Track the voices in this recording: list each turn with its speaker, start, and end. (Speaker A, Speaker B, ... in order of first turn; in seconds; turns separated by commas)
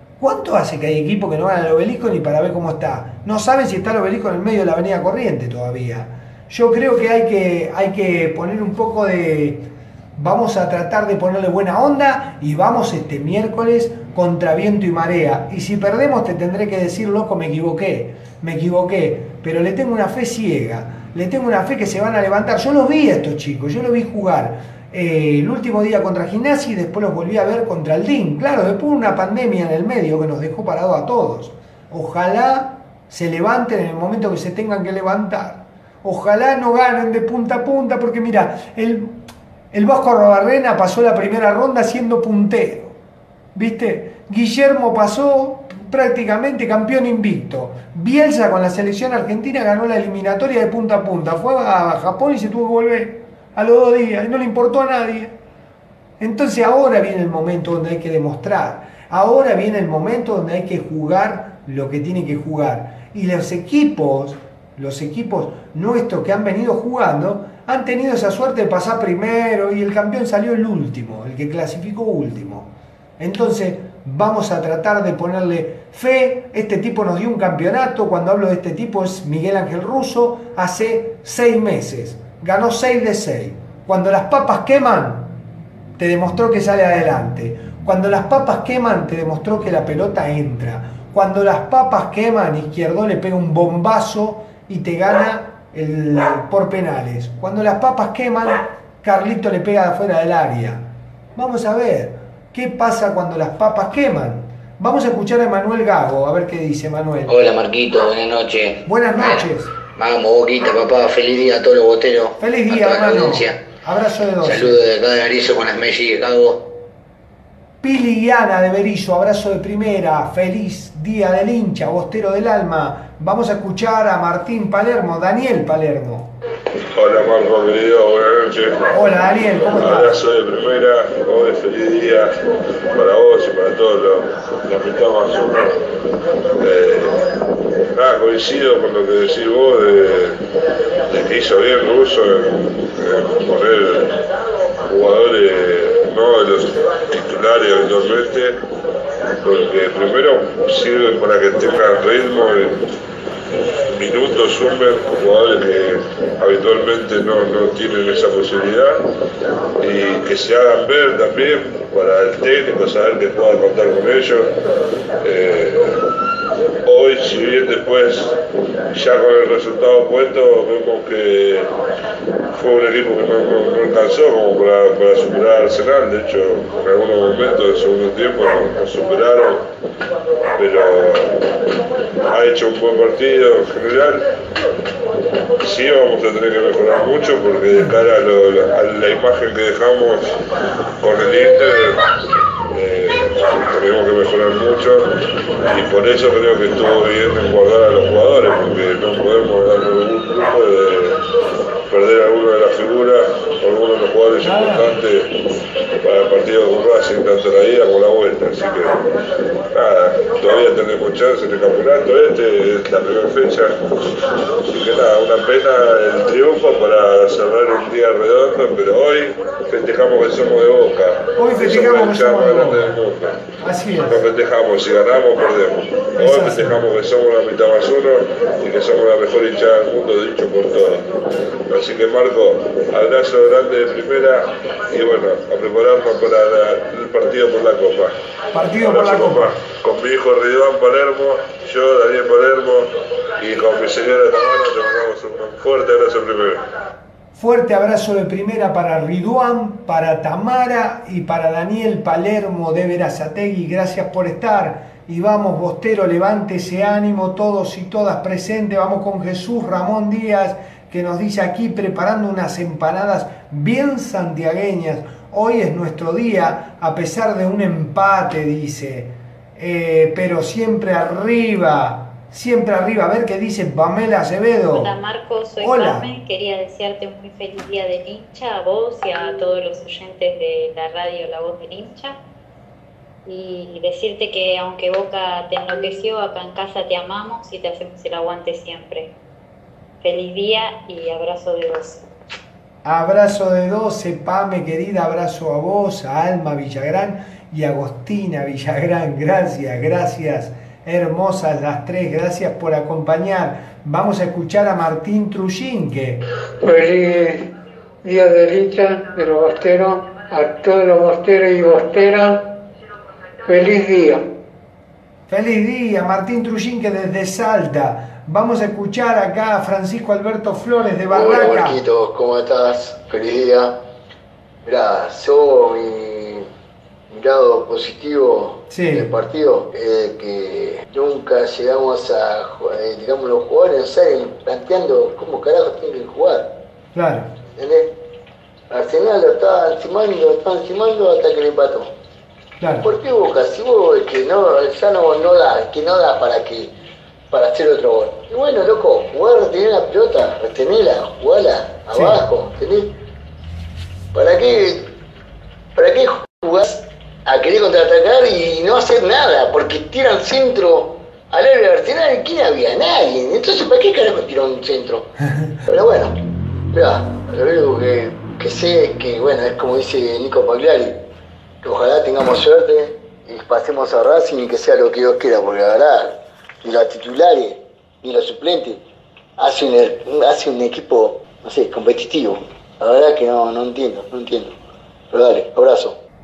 Speaker A: 0.2-39.2, Speaker A: 39.7-43.0, Speaker A: 43.5-55.3, Speaker A: 56.2-85.3, Speaker A: 86.0-107.4, Speaker B: 107.3-113.6, Speaker A: 108.9-109.8, Speaker A: 112.4-114.8, Speaker B: 114.4-116.7, Speaker A: 117.8-126.3, Speaker C: 126.9-129.0, Speaker A: 128.9-130.2, Speaker C: 129.7-132.3, Speaker C: 132.9-135.8, Speaker C: 136.6-137.2, Speaker C: 137.9-140.4, Speaker C: 141.1-144.2, Speaker C: 144.9-148.6, Speaker C: 149.4-152.8, Speaker C: 153.9-159.0, Speaker C: 159.8-164.5, Speaker C: 165.2-166.0, Speaker C: 166.8-168.3, Speaker C: 168.9-171.7, Speaker C: 172.6-179.7, Speaker C: 180.6-181.4, Speaker C: 182.2-184.2, Speaker C: 185.6-190.4, Speaker C: 191.0-192.0, Speaker C: 192.7-195.1, Speaker C: 195.7-201.2, Speaker C: 201.9-205.3, Speaker A: 204.4-204.9, Speaker C: 206.0-209.0, Speaker C: 209.7-213.8, Speaker C: 214.7-223.4, Speaker A: 221.4-222.9, Speaker A: 223.6-224.2, Speaker C: 224.0-231.1, Speaker A: 226.2-226.8, Speaker C: 231.7-238.2, Speaker A: 238.5-239.6, Speaker C: 238.8-246.6, Speaker A: 247.3-274.9, Speaker D: 274.7-282.2, Speaker A: 275.6-276.1, Speaker D: 283.3-289.1, Speaker D: 290.0-292.1, Speaker A: 292.8-306.2, Speaker E: 306.6-307.5, Speaker E: 308.0-312.6, Speaker E: 313.4-314.3, Speaker A: 315.3-321.8, Speaker F: 321.1-323.8, Speaker F: 324.6-326.5, Speaker F: 327.1-336.5, Speaker A: 328.7-329.1, Speaker A: 336.9-337.3, Speaker F: 337.6-337.9, Speaker F: 338.7-341.9, Speaker A: 342.6-342.9, Speaker F: 342.8-346.7, Speaker F: 347.3-352.9, Speaker F: 354.1-354.9, Speaker F: 355.8-365.1, Speaker F: 365.7-366.1, Speaker F: 366.7-371.0, Speaker F: 371.6-378.8, Speaker F: 379.4-384.6, Speaker F: 385.1-386.0